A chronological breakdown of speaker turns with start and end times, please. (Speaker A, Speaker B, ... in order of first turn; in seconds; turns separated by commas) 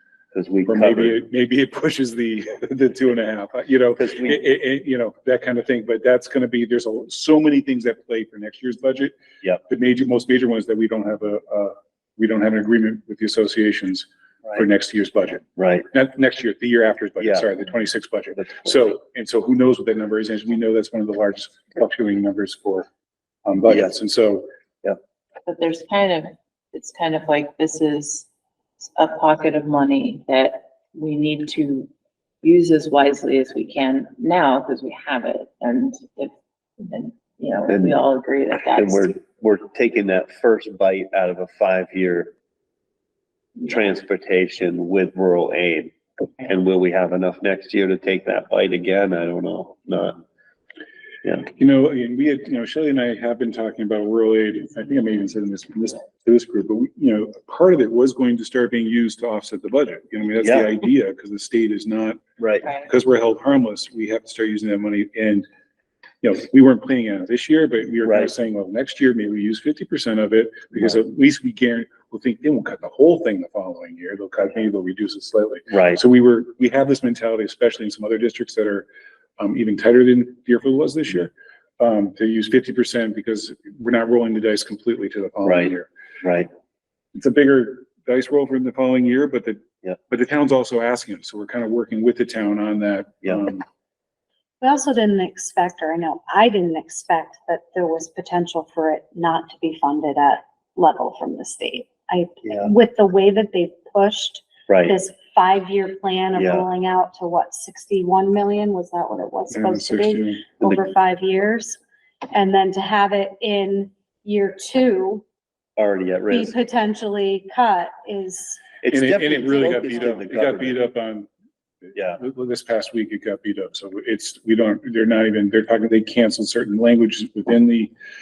Speaker A: 0.3-1.2, Speaker B: 0.7-9.2, Speaker A: 4.0-4.4, Speaker B: 9.7-22.9, Speaker A: 15.6-15.9, Speaker A: 17.2-17.5, Speaker A: 18.4-18.7, Speaker B: 23.5-24.5, Speaker A: 23.7-23.9, Speaker C: 25.5-28.3, Speaker C: 28.8-31.9, Speaker C: 32.4-36.3, Speaker C: 36.9-39.2, Speaker A: 37.7-38.0, Speaker A: 38.6-42.3, Speaker A: 43.6-50.2, Speaker B: 51.6-62.2, Speaker A: 60.4-60.7, Speaker A: 62.4-62.7, Speaker C: 62.6-62.9, Speaker B: 62.8-65.5, Speaker B: 66.2-78.9, Speaker A: 68.0-68.3, Speaker A: 75.7-76.0, Speaker B: 79.4-85.9, Speaker A: 85.4-86.5, Speaker B: 87.2-93.6, Speaker D: 94.6-111.8, Speaker A: 102.5-102.7, Speaker A: 104.7-105.0, Speaker A: 106.3-106.7, Speaker B: 109.5-110.5, Speaker D: 112.3-115.2, Speaker A: 115.8-116.6, Speaker D: 116.3-118.6, Speaker A: 118.8-120.8, Speaker B: 118.9-121.3, Speaker A: 122.0-122.2, Speaker B: 122.0-127.9